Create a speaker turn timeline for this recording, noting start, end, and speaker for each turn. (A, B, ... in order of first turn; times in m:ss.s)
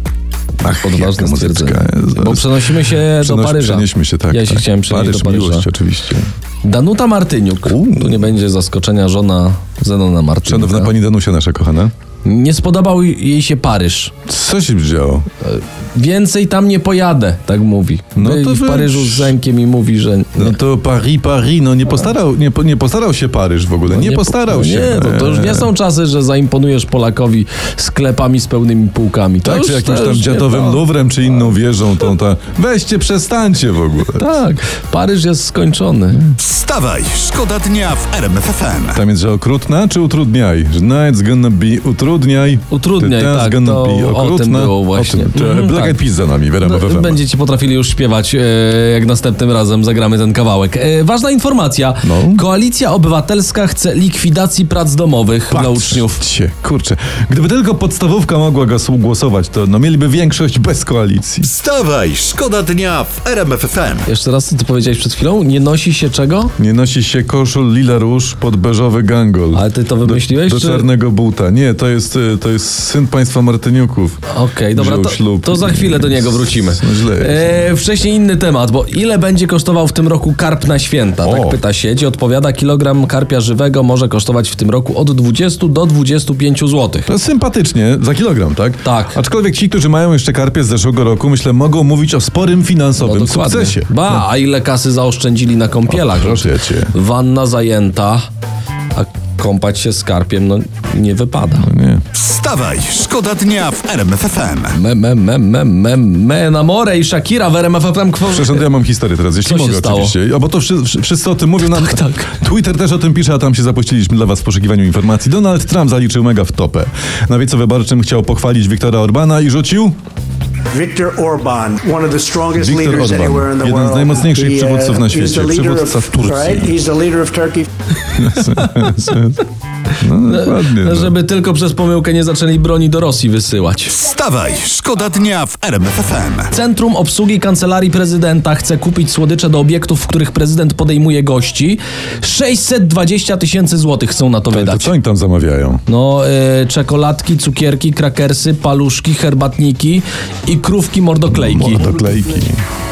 0:00.6-0:06.3 A
0:00.8-0:05.7 B
0:06.6-0:10.9 B
0:07.6-0:08.3 A
0:10.4-0:11.9 A
0:12.2-0:14.1 B
0:14.3-0:15.3 A
0:15.4-0:20.6 B
0:18.2-0:19.4 A
0:20.4-0:25.7 A
0:23.9-0:30.8 B
0:29.4-0:34.4 A
0:34.2-0:36.4 B
0:36.4-0:39.0 C
0:38.9-0:47.2 A
0:42.7-0:46.0 B
0:46.6-0:56.2 B
0:52.0-0:52.4 A
0:55.5-1:01.5 A
1:01.4-1:04.1 C
1:04.1-1:06.5 B
1:06.6-1:14.2 A
1:09.5-1:10.9 B
1:14.3-1:27.1 B
1:14.8-1:17.7 A
1:21.2-1:21.6 A
1:27.1-1:34.2 A
1:28.8-1:29.2 B
1:33.0-1:38.3 B
1:35.9-1:36.9 A
1:38.9-1:41.7 B
1:41.6-1:42.0 A
1:42.1-1:44.8 C
1:44.7-1:48.7 B
1:48.3-2:00.0 A
1:49.4-1:50.2 B
1:51.7-1:52.3 B
2:00.7-2:07.7 D
2:02.5-2:06.8 A
2:08.1-2:09.4 A
2:08.4-2:09.0 B
2:10.0-2:11.2 A
2:10.2-2:14.1 B
2:14.0-2:16.5 C
2:16.5-2:24.9 B
2:24.5-2:25.8 A
2:25.9-2:31.9 B
2:31.3-2:32.6 A